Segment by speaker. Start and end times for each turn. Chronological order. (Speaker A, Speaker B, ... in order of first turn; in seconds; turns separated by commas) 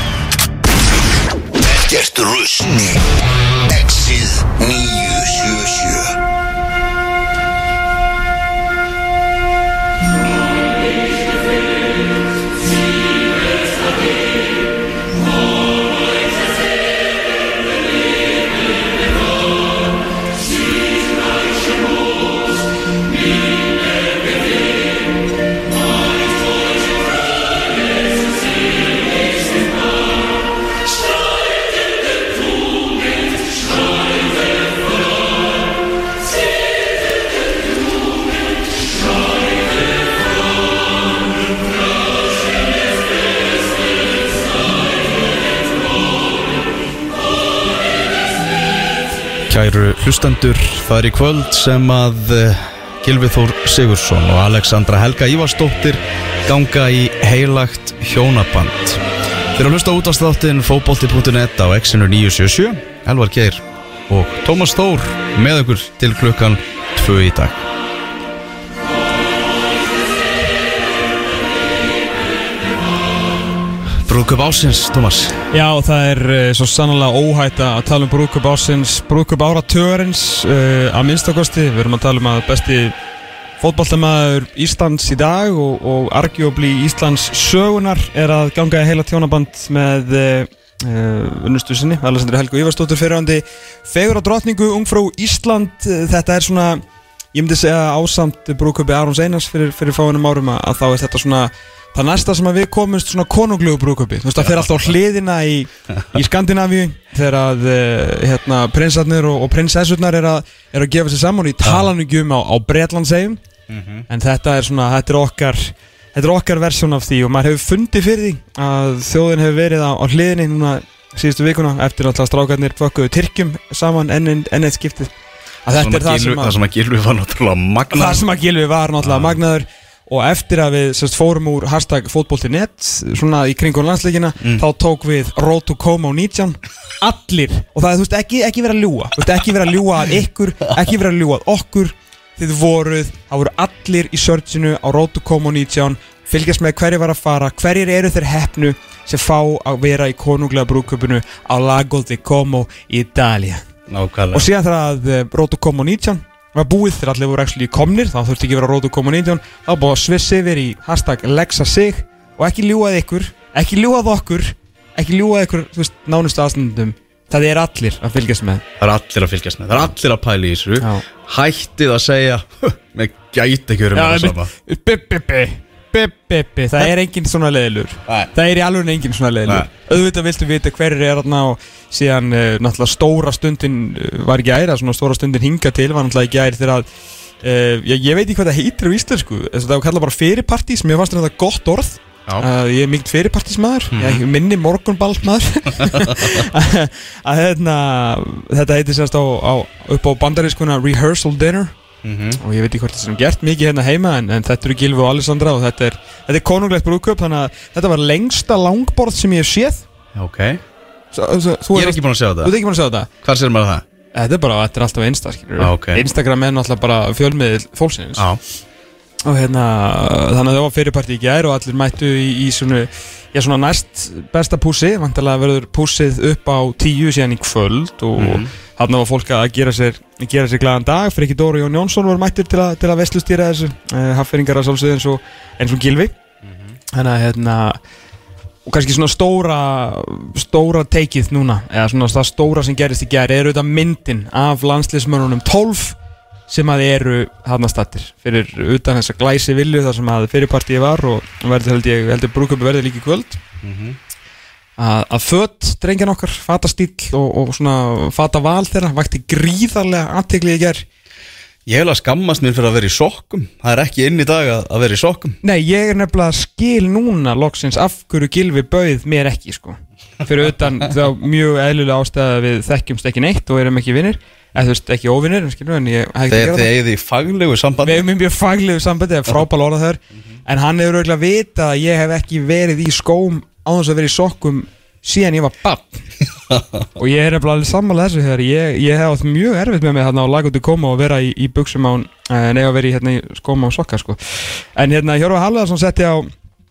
Speaker A: 1.6-3.1, Speaker A: 3.7-6.1, Speaker B: 49.5-59.0, Speaker B: 59.5-67.7, Speaker B: 74.0-75.4, Speaker C: 75.5-82.9, Speaker C: 83.6-113.4, Speaker B: 113.7-114.0, Speaker C: 114.1-125.1, Speaker C: 125.6-126.5, Speaker B: 125.8-128.2, Speaker C: 127.9-153.7, Speaker B: 129.0-129.3, Speaker B: 153.9-154.5, Speaker C: 154.3-168.6, Speaker B: 168.8-174.5, Speaker C: 170.8-171.0, Speaker C: 173.9-186.9, Speaker C: 187.4-201.7, Speaker B: 193.9-194.2, Speaker B: 195.8-196.4, Speaker B: 202.0-202.4, Speaker C: 202.4-209.8, Speaker B: 210.1-210.6, Speaker C: 211.1-213.1, Speaker B: 211.7-212.5, Speaker B: 213.2-213.8, Speaker C: 214.1-218.2, Speaker B: 215.6-216.0, Speaker C: 219.2-236.1, Speaker B: 228.2-228.5, Speaker B: 236.4-236.7, Speaker C: 236.9-237.8, Speaker C: 238.7-246.0, Speaker C: 246.5-253.4, Speaker B: 253.6-254.0, Speaker C: 254.8-260.8, Speaker B: 261.6-265.4, Speaker C: 265.4-276.7, Speaker B: 276.3-278.0, Speaker C: 277.8-286.1, Speaker B: 286.5-286.9, Speaker C: 286.9-296.3